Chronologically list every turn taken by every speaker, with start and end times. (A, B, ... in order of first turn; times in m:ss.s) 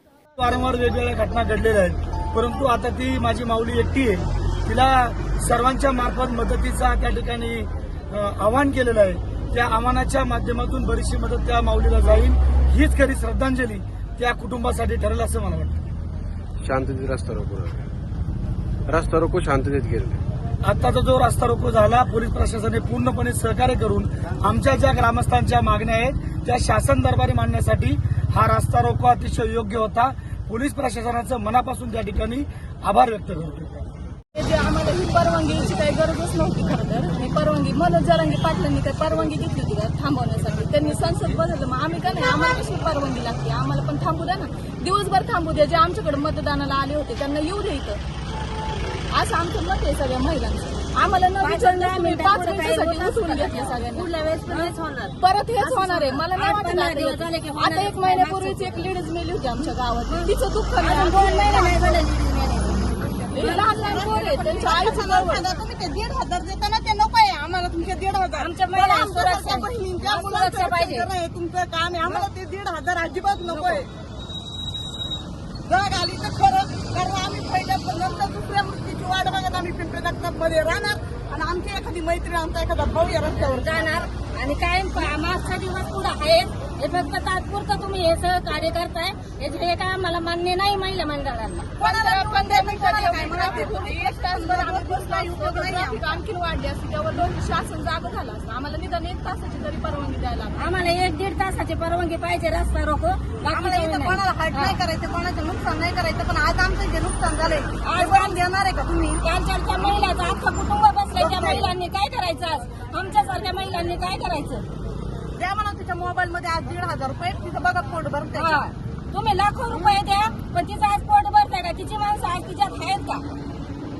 0:00.4-0:15.8 A
0:16.6-0:17.9 B
0:18.9-0:20.2 B
0:20.6-0:33.9 A
0:34.4-0:48.0 C
0:49.1-1:02.0 C
0:51.4-0:58.8 D
1:00.1-1:04.6 D
1:03.3-1:05.5 C
1:03.9-1:13.9 E
1:08.4-1:11.1 D
1:13.5-1:13.8 D
1:15.7-1:24.0 E
1:23.4-1:31.7 D
1:31.8-1:36.2 E
1:31.8-1:40.6 C
1:40.6-1:44.8 D
1:43.5-1:49.2 E
1:47.8-1:48.4 D
1:49.2-1:54.6 D
1:51.2-1:51.7 E
1:55.4-1:58.6 E
1:58.4-2:03.2 D